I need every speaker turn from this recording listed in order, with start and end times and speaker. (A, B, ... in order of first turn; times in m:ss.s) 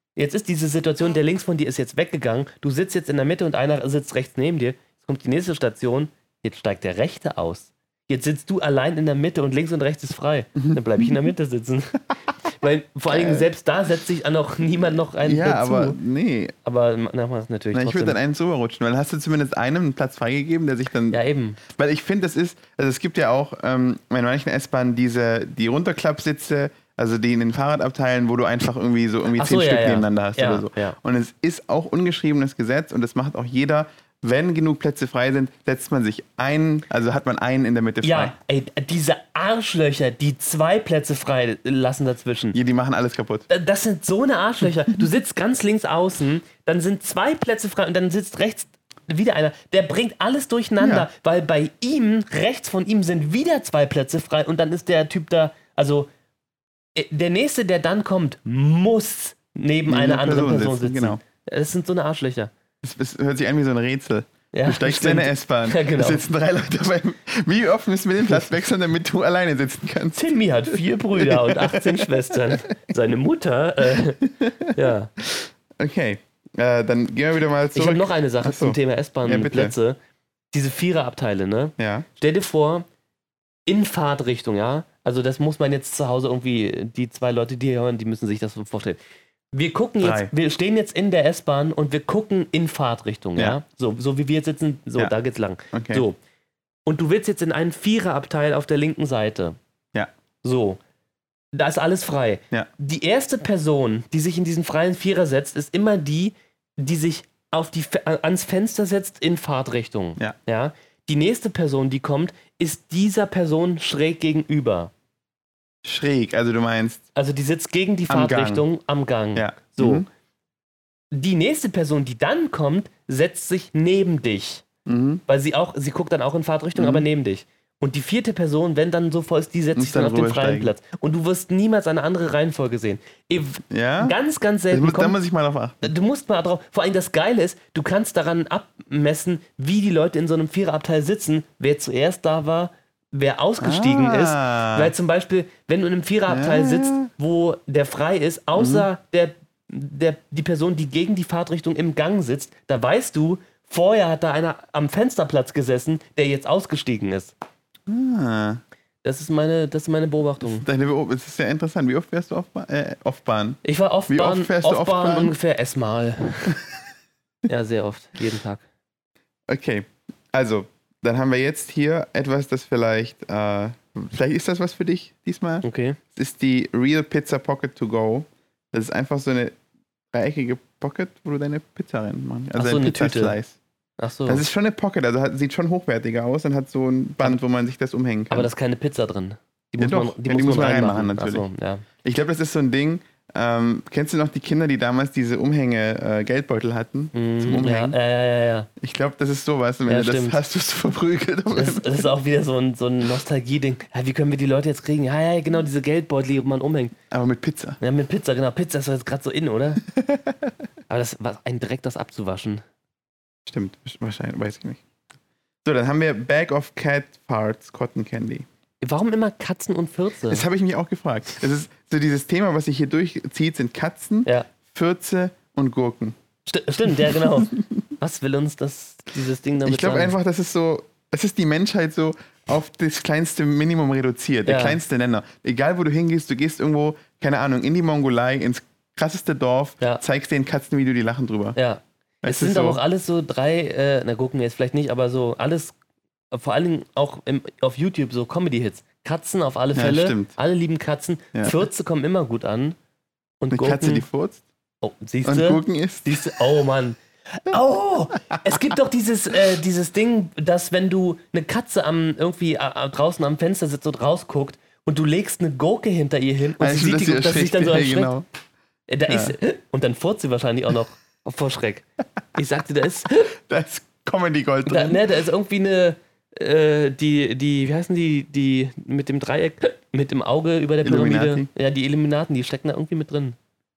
0:00.2-0:16.0 A
0:10.6-0:11.2 B
0:13.1-0:13.5 B
0:15.2-0:16.6 B
0:16.6-0:18.2 A
0:17.7-0:38.4 B
0:21.1-0:21.6 A
0:29.4-0:31.0 A
0:38.0-0:42.6 A
0:42.5-0:43.5 B
0:43.5-0:56.1 A
0:50.8-0:51.1 B
0:57.0-1:02.5 A
0:59.9-1:01.2 B
1:02.8-1:12.6 B
1:04.5-1:06.2 A
1:10.2-1:15.1 A
1:14.2-1:19.8 B
1:17.7-1:20.0 A
1:20.5-1:22.8 A
1:21.8-1:22.1 B
1:23.7-1:29.0 A
1:29.5-1:36.2 A
1:30.0-1:30.3 B
1:35.7-1:36.0 B
1:36.9-1:39.6 A
1:40.4-1:40.8 A
1:41.5-1:54.9 A
1:55.8-1:57.0 B
1:57.2-2:00.0 A
1:58.1-1:58.6 B
1:59.4-2:00.1 B
2:01.1-2:04.7 A
2:04.9-2:05.2 B
2:05.3-2:15.2 A
2:06.8-2:07.1 B
2:09.8-2:10.7 B
2:13.7-2:14.2 B
2:14.7-2:15.9 B
2:15.8-2:37.3 A
2:23.6-2:24.9 B
2:26.3-2:27.1 B
2:28.6-2:28.9 B
2:37.9-2:38.6 B
2:39.0-2:40.6 A
2:40.4-2:45.3 B
2:43.6-2:46.6 A
2:47.5-2:48.6 A
2:49.5-2:59.6 B
2:55.6-2:56.0 A
3:00.1-3:03.6 B
3:02.6-3:03.4 A
3:04.0-3:04.4 A
3:04.3-3:08.5 B
3:08.3-3:11.9 A
3:09.8-3:11.5 B
3:12.0-3:18.0 B
3:17.1-3:18.7 A
3:18.8-3:22.1 B
3:19.9-3:20.4 A
3:21.6-3:27.0 A
3:27.1-3:27.8 B
3:27.8-3:29.8 A
3:29.9-3:30.5 B
3:30.9-3:32.6 A
3:33.5-3:34.8 B
3:35.6-3:38.5 B
3:38.8-3:40.4 A
3:40.3-3:46.2 B
3:46.5-3:50.2 A
3:47.1-3:47.6 B
3:49.6-4:01.6 B
3:54.5-3:54.8 A
4:01.6-4:05.8 A
4:02.2-4:02.8 B
4:06.3-4:12.8 A
4:09.8-4:10.3 B
4:13.4-4:14.0 A
4:13.5-4:14.4 B
4:14.8-4:28.1 A
4:15.2-4:16.3 B
4:26.6-4:28.3 B
4:28.9-4:33.3 A
4:29.1-4:29.4 B
4:33.4-4:35.0 B
4:34.7-4:43.4 A
4:40.8-4:41.5 B